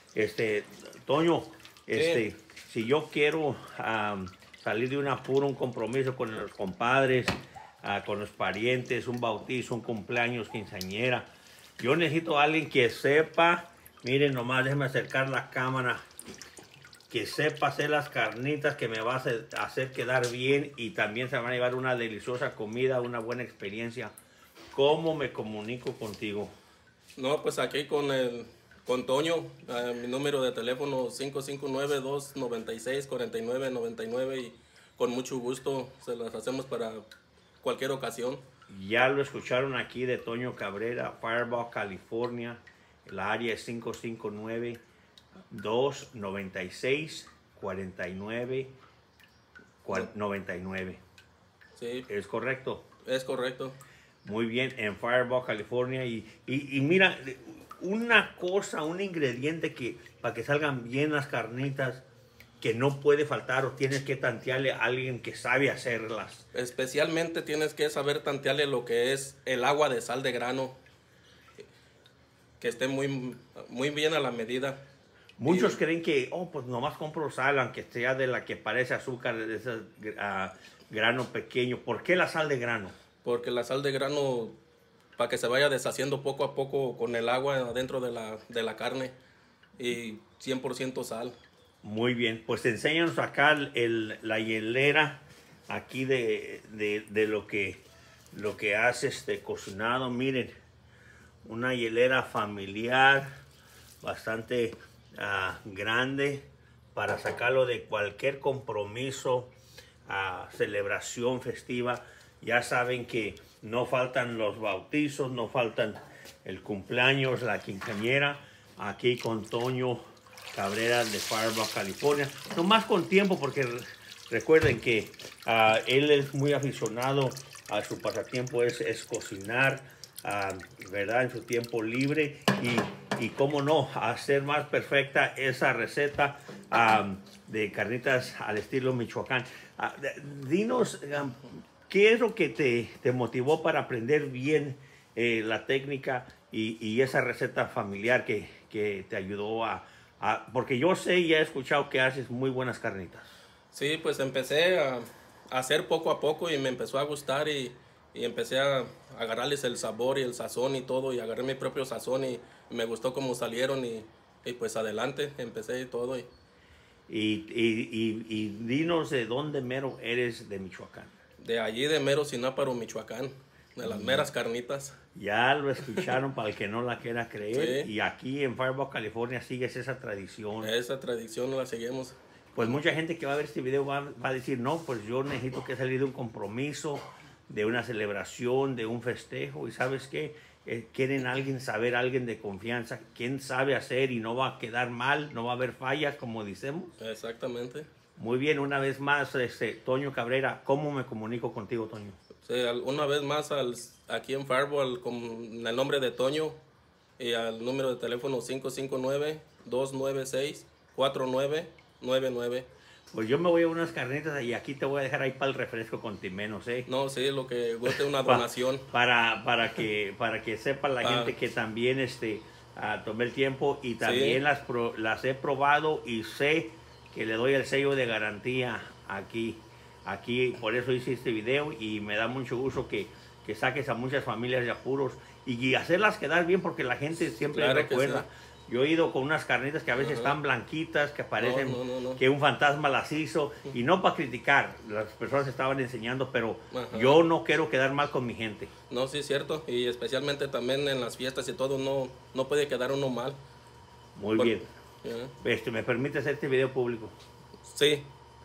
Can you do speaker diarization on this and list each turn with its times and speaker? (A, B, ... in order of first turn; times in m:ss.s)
0:00.2-0:16.0 A
0:02.0-0:02.2 B
0:17.1-0:24.1 A
0:24.7-0:26.5 A
0:27.2-0:37.0 B
0:37.6-0:38.4 B
0:38.7-0:44.8 A
0:45.5-0:48.7 A
0:49.8-0:51.0 A
0:51.8-0:52.1 B
0:52.1-0:52.8 A
0:53.0-0:53.8 B
0:54.2-1:02.0 A
1:02.6-1:06.5 A
1:06.5-1:10.8 B
1:12.6-1:14.8 B
1:15.4-1:23.0 A
1:15.5-1:15.8 B
1:23.2-1:24.6 B
1:25.2-1:29.2 B
1:29.8-1:31.4 B
1:31.8-1:40.5 A
1:41.4-1:43.3 A
1:44.0-1:49.5 A
1:50.1-2:00.0 A
2:00.5-2:33.3 A
2:33.7-2:46.3 B
2:47.1-2:51.1 A
2:51.4-2:55.0 B
2:53.8-2:54.3 A
2:55.2-3:00.7 A
2:57.5-2:57.9 B
3:00.6-3:02.2 B
3:02.6-3:16.9 A
3:17.0-3:17.9 B
3:18.2-3:22.2 A
3:22.4-3:26.6 B
3:27.2-3:32.7 B
3:33.1-3:36.9 A
3:36.9-3:38.9 B
3:37.9-4:08.7 A
3:41.0-3:41.3 B
3:44.0-3:44.4 B
3:57.4-3:58.3 B
4:00.0-4:00.4 B
4:01.4-4:02.2 B
4:06.7-4:07.3 B
4:08.9-4:13.4 B
4:14.2-4:14.7 A
4:14.4-4:15.3 B
4:15.4-4:17.1 A
4:17.6-4:18.1 B